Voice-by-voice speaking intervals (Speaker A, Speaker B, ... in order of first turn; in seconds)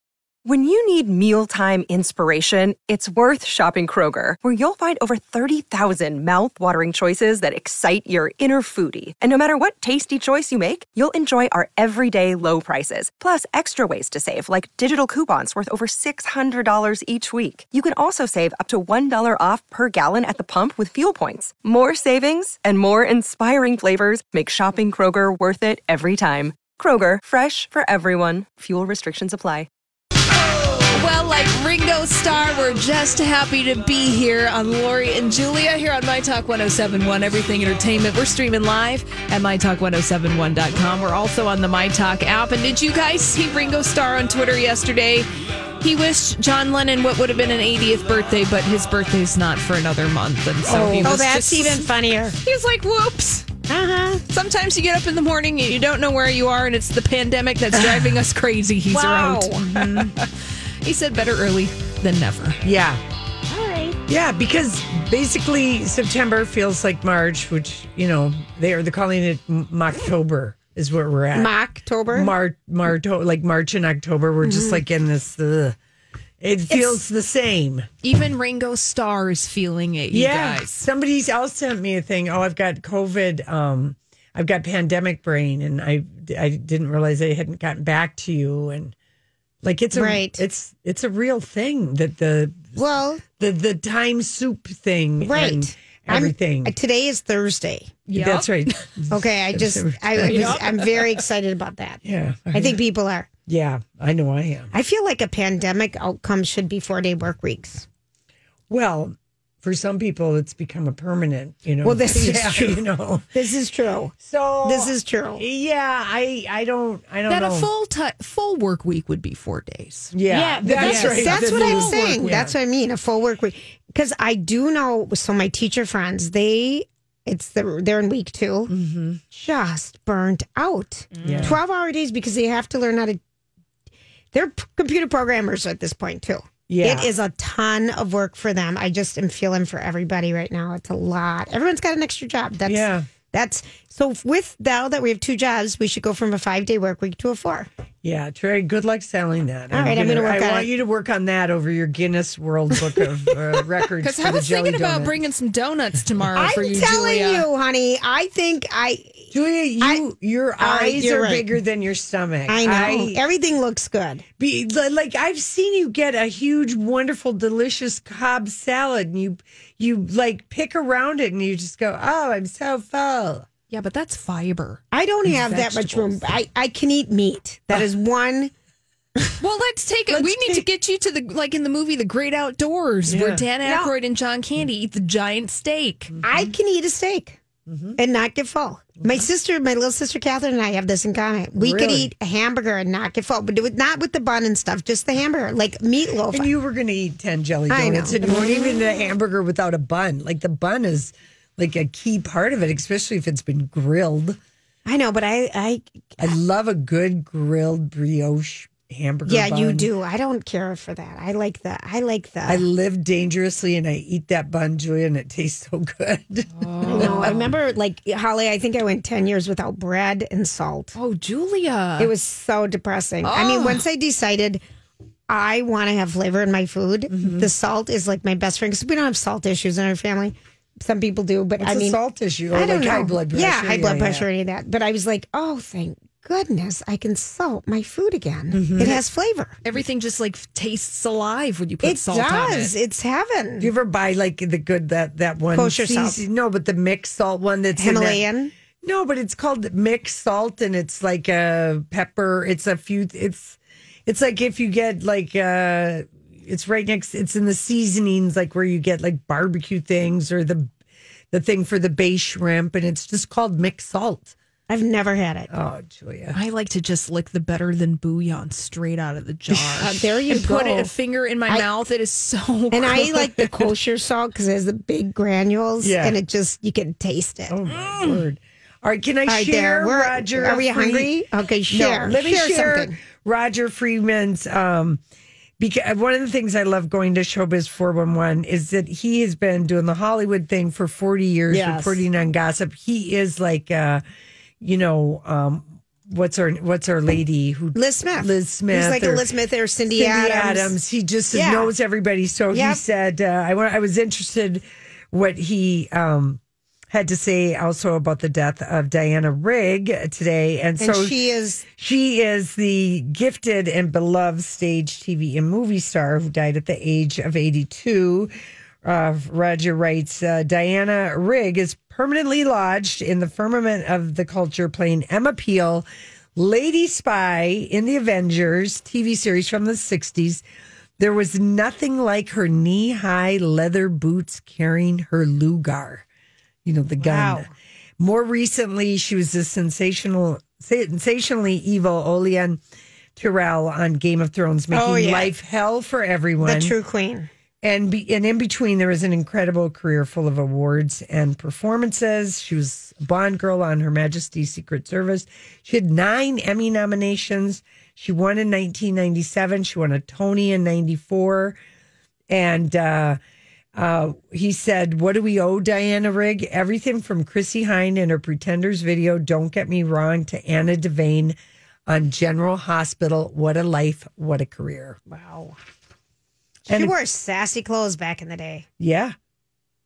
Speaker A: 0.5-29.7
Speaker B: 30.6-45.3, 45.8-51.8, 52.4-53.5, 54.3-60.3, 60.8-62.6, 78.0-80.8, 98.1-98.5, 100.2-100.7, 117.3-122.2, 131.1-131.6, 154.0-157.5, 173.7-176.3, 179.4-186.1, 216.6-217.5, 221.0-222.1, 223.2-223.8, 239.7-242.7, 266.4-273.2, 277.7-278.2
Speaker C: 50.6-51.9, 57.7-58.1, 59.7-60.2, 62.6-63.0, 64.1-71.5, 72.1-75.8, 76.4-77.9, 80.1-89.0, 89.6-92.8, 93.4-96.8, 98.1-100.7, 102.0-102.8, 103.5-104.7, 108.7-113.3, 114.2-117.7, 120.1-122.5, 128.7-129.2, 131.2-131.6, 136.7-137.1, 142.7-143.1, 148.0-155.2, 159.3-163.2, 164.4-173.5, 180.1-180.7, 183.1-183.5, 186.1-186.5, 187.7-188.0, 191.6-192.1, 196.3-204.4, 206.2-209.9, 212.5-217.5, 227.1-227.5, 231.6-234.3, 238.5-239.0, 243.6-248.2, 248.8-260.7, 261.3-264.4, 265.5-266.4, 269.5-270.0, 275.8-276.2, 277.5-281.1, 281.7-285.0, 285.6-294.0, 294.6-299.3, 299.9-306.4, 306.9-311.2, 311.7-318.3, 318.8-330.4, 331.0-336.1, 336.6-342.6, 343.2-346.7, 347.6-361.6, 362.3-363.2, 363.8-375.0, 376.7-376.9, 378.8-379.1
Speaker D: 51.0-52.4, 53.7-54.2, 58.9-59.7, 63.5-64.0, 71.3-72.3, 74.4-74.8, 76.7-77.0, 89.9-90.4, 92.8-93.2, 95.2-98.0, 99.1-102.0, 102.5-103.3, 104.7-107.9, 111.8-112.8, 113.3-115.4, 120.3-128.7, 129.3-133.2, 134.3-147.7, 149.7-150.7, 156.3-160.0, 160.6-161.5, 162.5-164.2, 174.9-178.5, 183.6-183.9, 186.2-187.4, 188.0-196.5, 197.7-198.8, 204.9-206.3, 209.3-212.6, 216.8-220.9, 222.0-224.6, 225.3-232.0, 232.5-239.6, 241.8-243.7, 245.5-246.2, 247.8-248.5, 264.7-265.5, 269.8-270.9, 272.7-277.6, 279.3-282.9, 291.5-292.0, 297.7-300.7, 301.3-301.7, 302.5-302.8, 310.8-311.6, 337.0-337.5, 344.7-345.3, 346.4-347.3, 375.1-375.6, 376.7-378.7